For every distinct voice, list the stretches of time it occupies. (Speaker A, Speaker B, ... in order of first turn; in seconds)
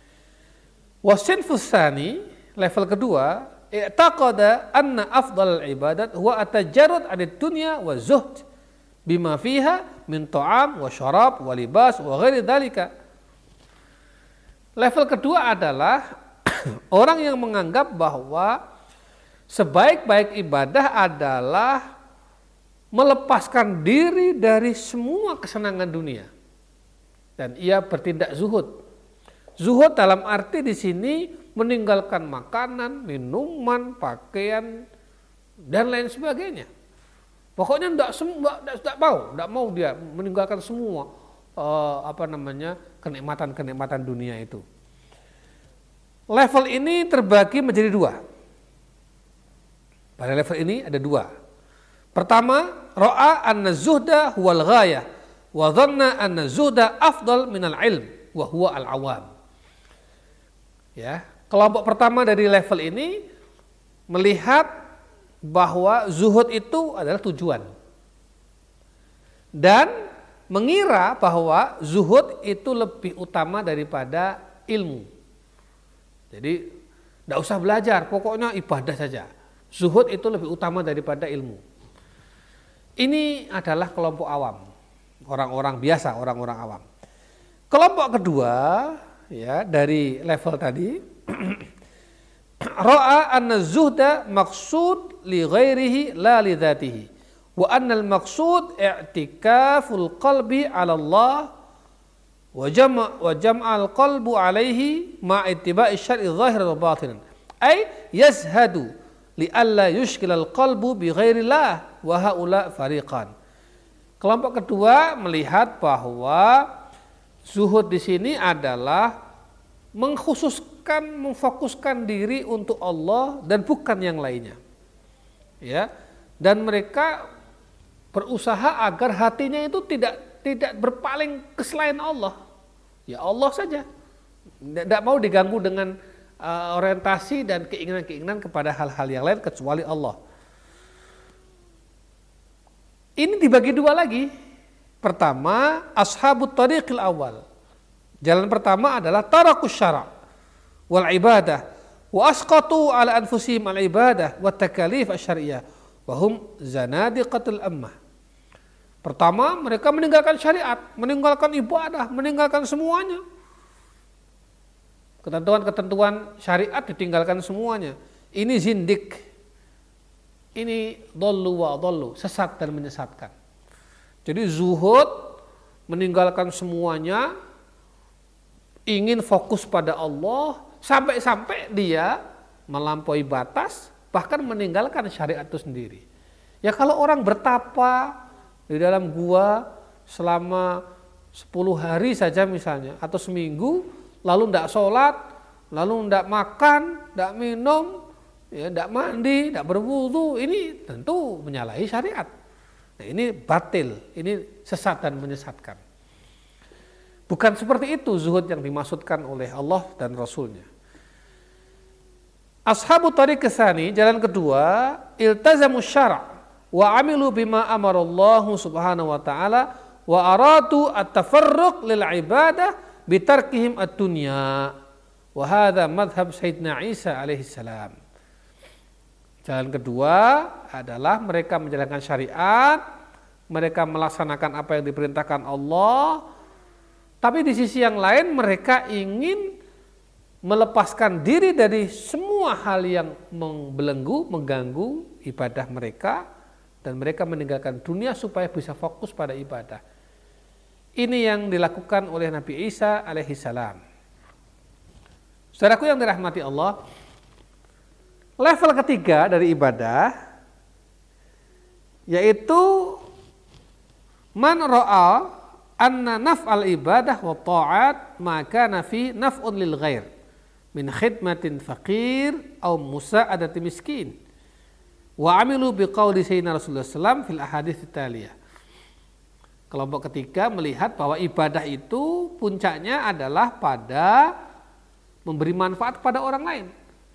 Speaker A: 1.1-8.4, 9.1-12.9, 14.8-18.6, 19.5-21.8, 22.9-26.3, 27.4-28.7, 29.6-34.7, 35.7-36.7, 37.6-44.6, 46.3-48.2, 50.2-51.3, 52.1-59.3, 61.0-63.2, 64.1-64.7, 65.5-67.7, 69.6-69.9, 70.5-75.1, 76.3-76.6, 77.3-81.6, 83.0-84.6, 85.3-86.8, 87.7-91.7, 92.7-101.5, 102.5-113.3, 114.2-116.7, 117.5-119.1, 120.0-124.6, 126.4-127.2, 128.1-132.4, 133.1-133.9, 134.6-140.2, 143.2-144.3, 145.0-147.4, 148.2-150.1, 150.9-151.6, 152.1-157.9, 159.0-163.2, 165.2-169.2, 170.6-173.3, 174.2-175.3, 175.9-177.3, 178.9-182.1, 182.7-186.0, 186.6-188.1, 188.7-190.8, 191.3-195.2, 195.7-198.0, 198.5-202.3, 203.0-205.8, 207.3-210.7, 212.7-224.7, 225.4-227.9, 229.5-232.8, 233.5-236.2, 237.2-239.5, 240.5-246.2, 246.8-249.8, 251.0-253.8, 255.6-256.8, 258.4-260.1, 262.1-263.0, 264.4-265.3, 265.8-270.1, 270.7-274.1, 275.2-278.4, 279.7-284.3, 285.3-286.7